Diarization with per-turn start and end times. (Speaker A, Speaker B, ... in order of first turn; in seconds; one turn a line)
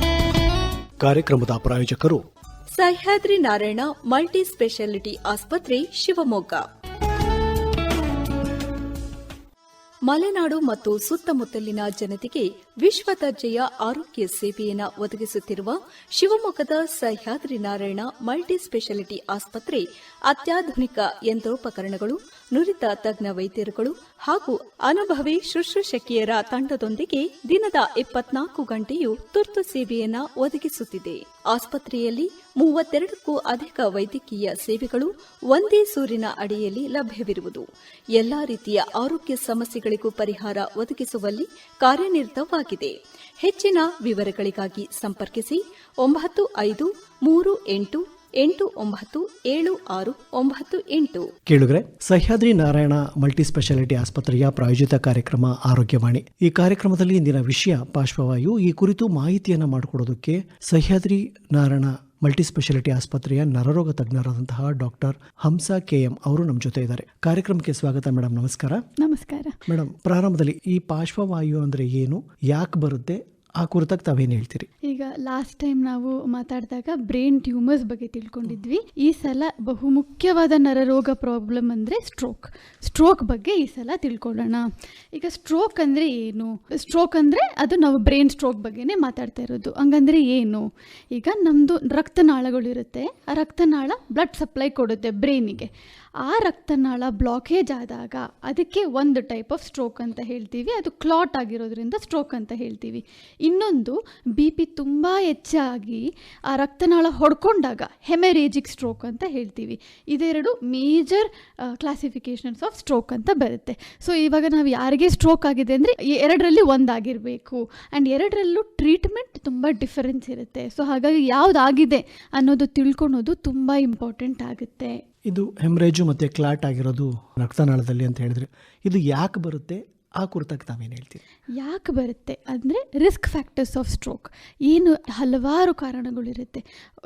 Speaker A: 1.0-2.2
Speaker B: 2.7-6.6
Speaker B: 10.1-51.3
Speaker A: 51.5-68.8
Speaker C: 69.0-69.6
Speaker A: 69.7-74.7
Speaker C: 74.8-95.7
Speaker C: 96.2-125.0
Speaker A: 125.3-131.2
Speaker C: 131.6-136.6